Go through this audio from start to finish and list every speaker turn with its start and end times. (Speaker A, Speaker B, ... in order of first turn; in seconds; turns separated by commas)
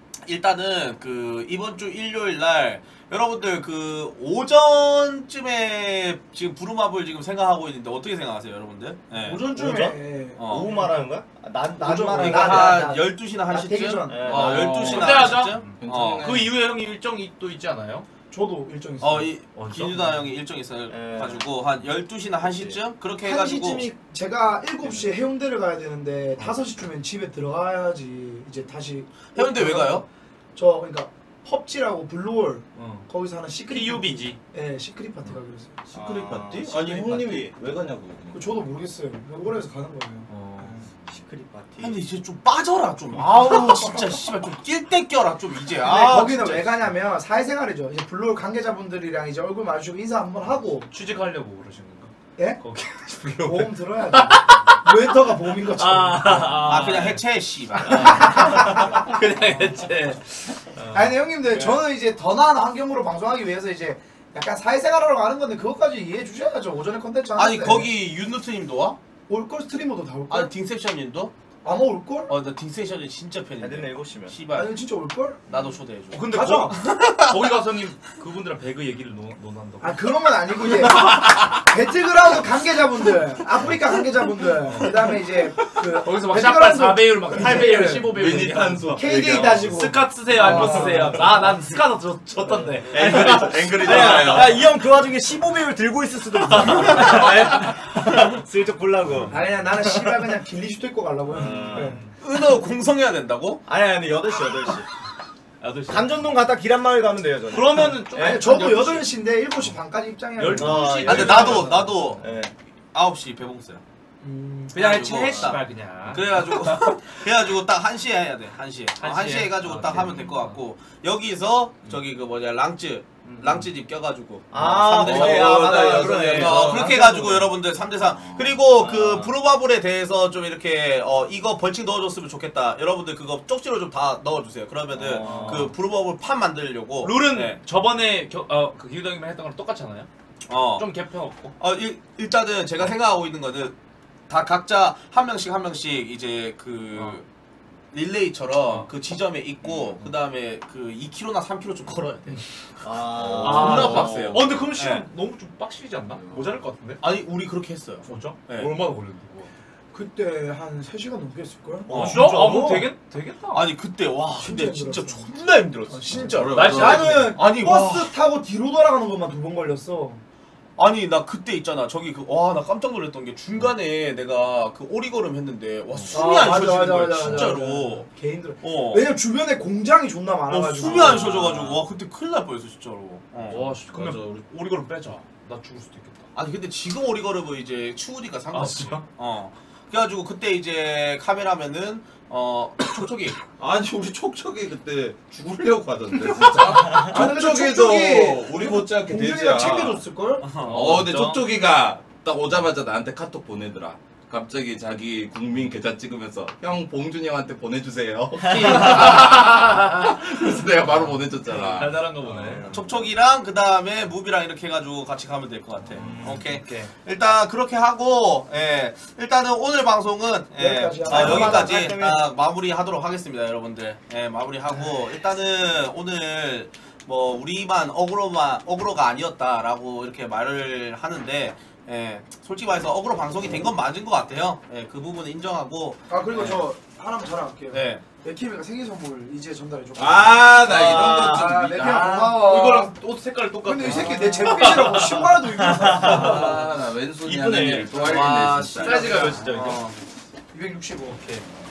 Speaker A: 0.2-9.4, Speaker B: 9.1-11.0, Speaker C: 9.5-13.0, Speaker A: 10.4-10.7, Speaker B: 11.8-14.7, Speaker A: 12.2-16.3, Speaker C: 14.1-15.1, Speaker D: 14.8-16.5, Speaker E: 14.8-18.1, Speaker B: 18.3-19.3, Speaker A: 19.0-23.9, Speaker E: 19.5-20.2, Speaker C: 20.9-21.4, Speaker C: 22.4-22.8, Speaker B: 23.2-35.9, Speaker A: 29.3-30.0, Speaker E: 32.8-33.1, Speaker E: 33.7-34.4, Speaker D: 35.9-38.7, Speaker C: 35.9-37.2, Speaker B: 38.3-40.9, Speaker E: 40.3-40.8, Speaker C: 41.1-42.0, Speaker A: 41.8-46.8, Speaker B: 43.1-44.3, Speaker B: 45.8-50.9, Speaker E: 50.8-54.6, Speaker B: 53.4-56.8, Speaker E: 55.7-57.2, Speaker A: 56.6-58.7, Speaker E: 57.7-61.8, Speaker B: 57.8-59.8, Speaker B: 60.9-67.9, Speaker A: 67.3-69.0, Speaker B: 69.3-70.5, Speaker A: 70.3-71.3, Speaker B: 71.6-72.3, Speaker A: 72.3-74.7, Speaker C: 73.6-74.3, Speaker B: 74.5-75.5, Speaker A: 75.5-77.3, Speaker E: 76.1-80.1, Speaker B: 76.3-76.7, Speaker B: 79.8-88.2, Speaker E: 80.7-81.2, Speaker E: 84.6-85.2, Speaker E: 85.8-94.6, Speaker D: 88.0-89.9, Speaker B: 88.9-91.5, Speaker D: 90.5-91.3, Speaker B: 92.5-92.7, Speaker D: 92.9-94.6, Speaker C: 92.9-100.3, Speaker E: 96.5-97.7, Speaker B: 99.3-102.0, Speaker E: 101.3-102.1, Speaker C: 101.3-102.0, Speaker A: 102.2-103.6, Speaker C: 103.7-104.9, Speaker E: 105.6-106.3, Speaker C: 105.9-108.4, Speaker E: 107.5-109.7, Speaker B: 108.1-111.7, Speaker E: 110.4-112.3, Speaker C: 110.5-112.5, Speaker A: 111.0-112.2, Speaker A: 112.9-113.8, Speaker B: 114.2-114.8, Speaker E: 114.7-117.1, Speaker A: 114.7-137.6, Speaker E: 119.0-120.6, Speaker E: 123.2-123.7, Speaker C: 124.5-127.3, Speaker E: 124.6-127.3, Speaker D: 125.1-125.8, Speaker D: 126.3-127.0, Speaker D: 128.0-128.6, Speaker C: 128.7-129.3, Speaker C: 134.9-135.7, Speaker E: 135.2-135.7, Speaker E: 137.0-140.1, Speaker A: 140.5-140.9, Speaker E: 140.8-141.6, Speaker A: 141.6-143.7, Speaker A: 144.3-147.2, Speaker A: 147.9-152.4, Speaker D: 149.6-150.0, Speaker C: 152.8-154.4, Speaker D: 153.2-153.9, Speaker A: 153.2-155.0, Speaker E: 153.4-157.0, Speaker D: 156.1-156.5, Speaker A: 157.0-158.7, Speaker E: 158.1-159.5, Speaker B: 159.9-162.9, Speaker A: 161.9-162.3, Speaker E: 161.9-163.7, Speaker A: 163.5-168.1, Speaker B: 164.4-165.3, Speaker B: 165.9-170.2, Speaker D: 166.1-167.3, Speaker E: 166.5-167.4, Speaker A: 170.8-178.1, Speaker E: 175.9-176.6, Speaker B: 176.1-181.4, Speaker A: 178.6-179.1, Speaker A: 180.5-183.7, Speaker E: 180.8-181.8, Speaker E: 183.5-186.2, Speaker D: 183.9-184.4, Speaker A: 186.3-193.4, Speaker E: 188.5-189.0, Speaker D: 193.6-200.0, Speaker E: 196.3-197.0, Speaker B: 196.9-200.6, Speaker A: 200.4-201.3, Speaker E: 200.6-201.4, Speaker D: 200.6-212.9, Speaker A: 208.4-209.4, Speaker E: 208.8-209.8, Speaker E: 211.5-212.7, Speaker A: 212.7-236.7, Speaker D: 215.9-216.4, Speaker E: 215.9-216.9, Speaker B: 220.5-221.9, Speaker C: 221.0-222.2, Speaker B: 236.1-242.9, Speaker A: 237.7-238.0, Speaker D: 239.9-242.1, Speaker C: 240.6-242.4, Speaker E: 242.1-246.7, Speaker B: 243.6-246.5, Speaker C: 245.7-246.3, Speaker D: 246.0-249.4, Speaker E: 247.2-248.2, Speaker A: 247.9-249.9, Speaker E: 248.8-249.9, Speaker B: 250.5-251.2, Speaker E: 251.1-251.4